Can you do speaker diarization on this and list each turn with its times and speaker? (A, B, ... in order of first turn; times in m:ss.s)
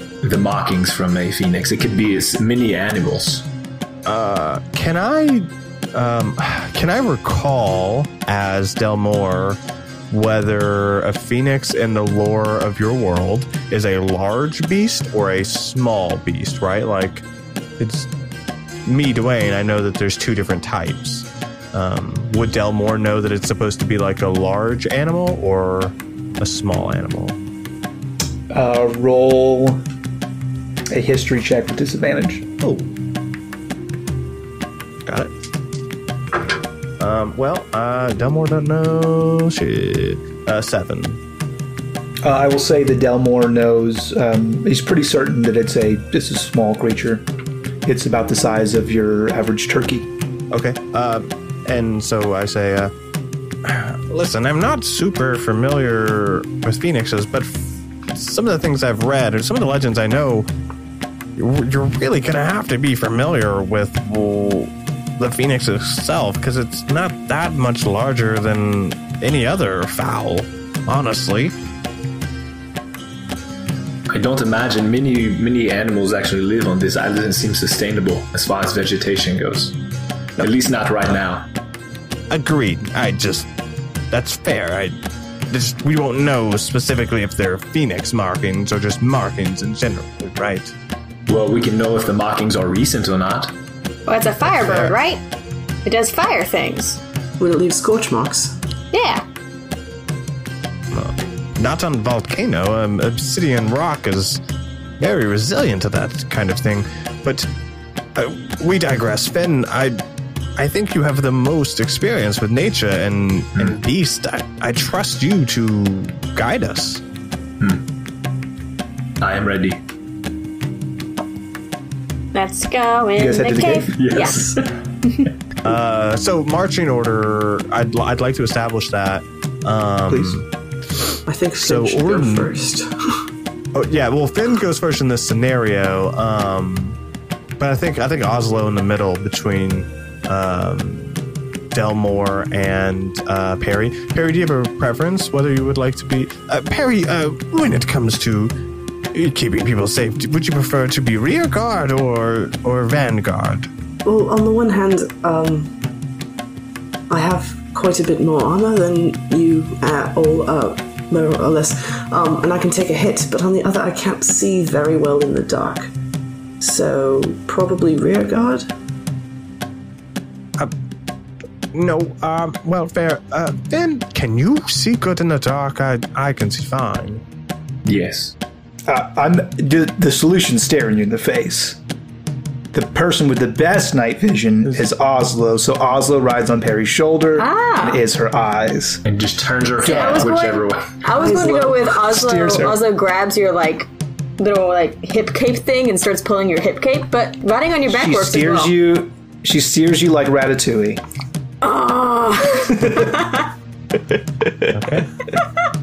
0:00.2-0:03.5 A
0:04.0-0:17.2 B
0:17.8-0:18.1 B
0:18.8-0:27.4 B
0:28.5-0:29.8 C
0:30.9-0:32.5 C
0:32.6-0:32.9 B
0:35.0-0:35.3 B
0:37.0-0:41.2 B
0:42.2-0:47.3 C
0:47.8-0:50.1 C
0:50.5-0:52.9 B
0:53.6-1:00.5 B
1:01.4-1:11.6 B
1:14.1-1:19.8 A
1:20.4-1:21.5 A
1:22.3-1:23.5 B
1:24.1-1:25.0 B
1:25.5-1:30.7 B
1:31.3-1:33.5 A
1:34.1-1:35.2 D
1:34.4-1:35.0 B
1:35.8-1:37.0 D
1:37.4-1:38.6 E
1:38.9-1:39.2 D
1:40.9-1:44.4 B
1:45.0-1:47.5 B
1:48.2-1:50.0 B
1:50.6-1:57.0 B
1:59.2-1:59.8 A
2:02.3-2:04.5 D
2:03.2-2:04.0 C
2:04.0-2:04.8 A
2:05.6-2:10.5 B
2:10.1-2:10.4 C
2:11.3-2:13.2 E
2:11.6-2:12.5 B
2:13.7-2:17.0 B
2:17.6-2:28.5 B
2:29.1-2:33.7 B
2:34.0-2:35.7 E
2:37.1-2:45.9 E
2:46.6-2:48.7 E
2:51.7-2:57.2 B
2:57.8-2:58.4 A
2:58.9-3:01.8 C
3:02.7-3:09.0 C
3:07.4-3:08.0 D
3:09.0-3:11.0 A
3:09.8-3:10.3 C
3:09.8-3:13.9 D
3:11.2-3:12.8 C
3:14.4-3:18.7 D
3:17.9-3:21.0 C
3:21.6-3:23.5 D
3:22.7-3:23.2 C
3:24.4-3:25.0 C
3:24.7-3:25.1 B